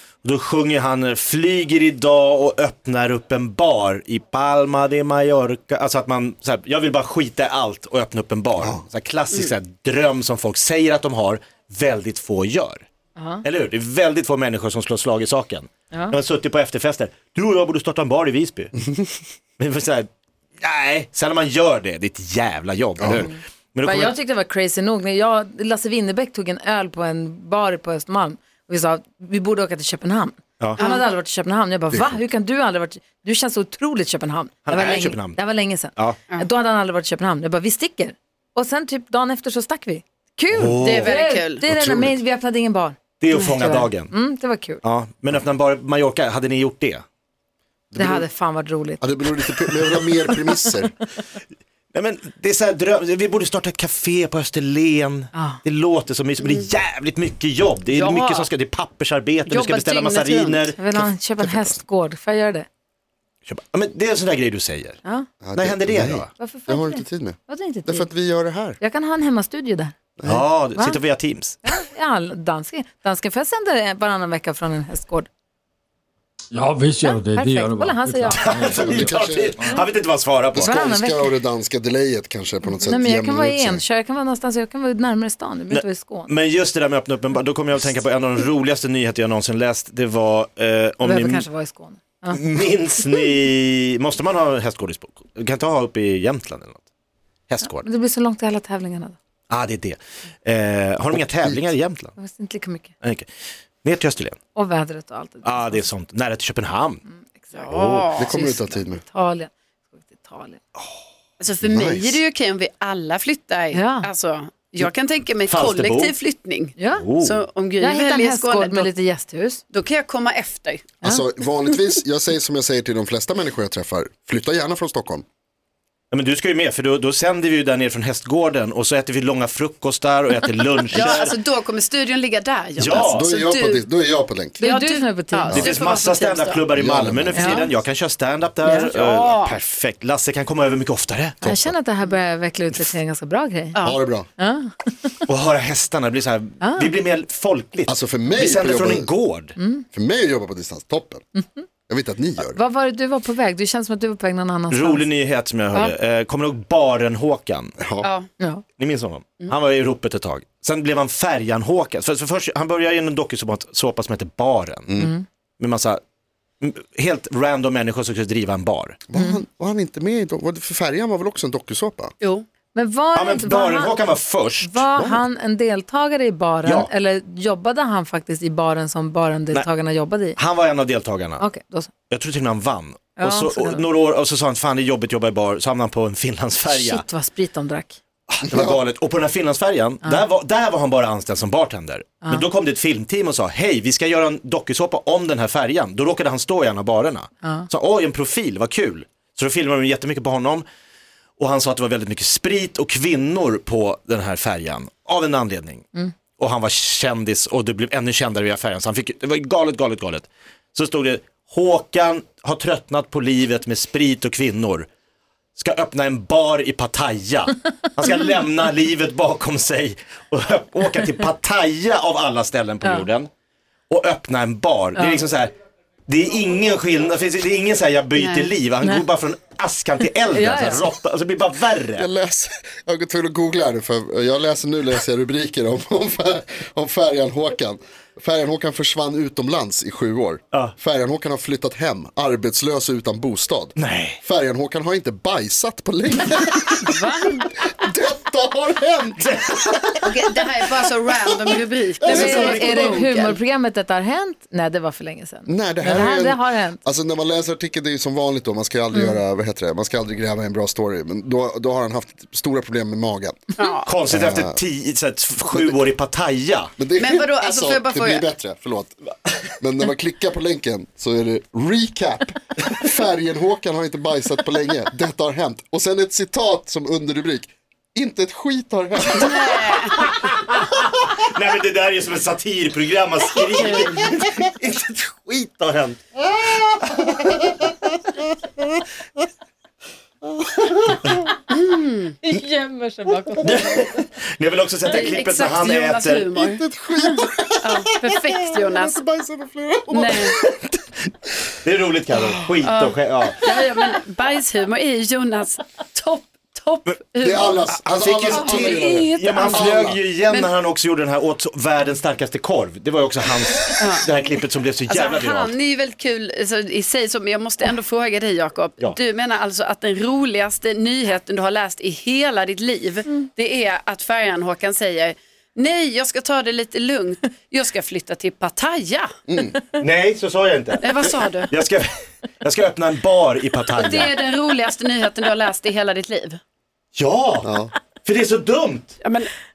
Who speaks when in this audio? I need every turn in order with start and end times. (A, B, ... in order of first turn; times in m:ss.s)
0:00.2-0:12.8 A
0:13.2-0:13.4 B
0:13.4-0:18.8 A
0:15.9-0:16.2 B
0:19.6-0:20.1 A
0:20.6-0:24.2 A
0:23.0-0:23.3 C
0:23.8-0:44.8 B
0:30.8-0:31.0 D
0:31.9-0:32.2 C
0:34.7-0:36.2 A
0:40.5-0:41.2 A
0:40.8-0:41.6 D
0:41.7-0:42.2 C
0:43.2-0:44.1 A
0:43.3-0:43.7 D
0:44.8-0:47.0 A
0:47.9-0:48.3 C
0:48.0-0:50.7 B
0:49.0-0:50.9 C
0:51.9-1:00.8 A
0:55.3-0:55.6 B
0:57.9-0:58.5 D
0:59.5-1:00.7 D
1:00.8-1:02.6 B
1:01.0-1:01.8 C
1:03.4-1:05.0 A
1:05.4-1:08.8 C
1:05.5-1:06.3 A
1:06.4-1:08.1 B
1:08.8-1:09.9 B
1:10.2-1:10.4 C
1:10.2-1:11.6 A
1:10.7-1:11.0 B
1:11.6-1:15.3 B
1:16.5-1:19.6 E
1:17.0-1:18.6 B
1:18.3-1:20.7 A
1:18.7-1:19.7 C
1:20.5-1:23.8 C
1:20.5-1:21.3 B
1:22.8-1:26.3 B
1:25.7-1:31.4 A
1:31.0-1:32.4 B
1:32.3-1:36.8 A
1:37.5-1:37.9 A
1:37.7-1:39.2 B
1:39.5-1:42.2 A
1:41.1-1:41.6 C
1:42.2-1:42.9 B
1:43.0-1:43.3 A
1:43.8-1:44.4 A
1:44.5-1:45.9 B
1:45.4-1:47.0 A
1:47.1-1:47.7 B
1:47.6-1:48.3 D
1:47.6-1:48.1 A
1:48.2-1:49.0 C
1:48.3-1:50.6 B
1:51.4-1:58.9 D
1:51.6-1:52.2 C
1:53.7-1:54.1 B
1:55.4-1:56.2 A
1:56.8-1:57.0 B
1:57.0-1:57.4 A
1:57.8-1:59.6 B
1:59.7-2:00.9 D
2:01.0-2:05.2 C
2:06.1-2:11.4 A
2:10.9-2:13.8 D
2:12.8-2:13.3 A
2:13.0-2:14.6 C
2:14.6-2:16.6 D
2:14.6-2:15.6 B
2:15.5-2:15.8 C
2:15.5-2:21.4 A
2:16.7-2:17.7 C
2:17.3-2:17.7 B
2:18.7-2:19.6 D
2:21.4-2:21.7 C
2:21.4-2:23.8 B
2:23.7-2:24.0 D
2:23.8-2:24.3 C
2:24.4-2:25.1 B
2:25.3-2:29.5 A
2:26.6-2:26.9 B
2:27.9-2:29.1 C
2:29.6-2:29.8 B
2:29.9-2:31.2 C
2:31.4-2:31.6 B
2:31.9-2:32.6 C
2:32.4-2:35.0 B
2:34.7-2:37.8 A
2:37.8-2:38.1 C
2:38.0-2:38.3 D
2:38.8-2:44.9 A
2:44.9-2:45.1 C
2:45.0-2:45.2 B
2:45.6-2:46.0 A
2:46.6-2:49.0 A
2:49.1-2:52.1 C
2:49.1-2:49.4 B
2:52.2-2:52.4 D
2:52.7-2:54.0 B
2:53.1-2:54.8 A
2:54.6-3:00.4 B
2:55.0-2:55.2 C
2:56.6-2:56.9 A
3:00.3-3:01.4 A
3:01.4-3:01.9 B
3:02.1-3:07.0 A
3:03.2-3:03.8 B
3:06.7-3:08.0 B
3:08.3-3:20.6 A
3:08.5-3:08.8 C
3:12.2-3:12.5 B
3:17.4-3:17.7 B
3:21.4-3:25.8 A
3:26.4-3:34.9 A
3:35.6-3:43.3 A
3:43.9-3:45.5 A
3:45.0-3:45.2 B
3:46.1-3:52.1 A
3:48.2-3:48.5 D
3:50.3-3:50.8 B
3:52.0-4:13.2 C
4:03.8-4:04.2 A
4:06.8-4:07.4 D
4:09.2-4:09.8 A
4:10.0-4:13.4 D
4:12.0-4:16.8 B
4:15.5-4:23.5 C
4:23.6-4:23.9 D
4:23.8-4:26.7 A
4:24.1-4:24.6 C
4:26.8-4:29.0 C
4:27.0-4:28.3 D
4:29.6-4:39.7 C
4:39.1-4:40.0 D
4:39.9-4:46.0 A
4:43.6-4:44.0 D
4:47.0-4:47.4 A
4:50.6-4:51.0 C
4:51.5-4:52.1 D
4:52.2-4:54.0 B
4:53.4-4:56.3 A
4:54.8-4:59.0 D
4:56.3-5:00.8 C
4:59.9-5:00.4 D
5:01.6-5:03.6 A
5:02.6-5:07.7 D
5:06.9-5:15.5 A
5:07.2-5:10.0 C
5:08.3-5:10.5 D
5:13.8-5:14.1 D
5:14.9-5:29.1 D
5:29.3-5:29.6 C
5:29.8-5:31.9 A
5:30.8-5:31.5 D
5:32.4-5:34.2 A
5:33.7-5:36.4 D
5:36.9-5:37.5 A
5:37.4-5:37.7 C
5:38.0-5:39.0 A
5:39.0-5:39.3 D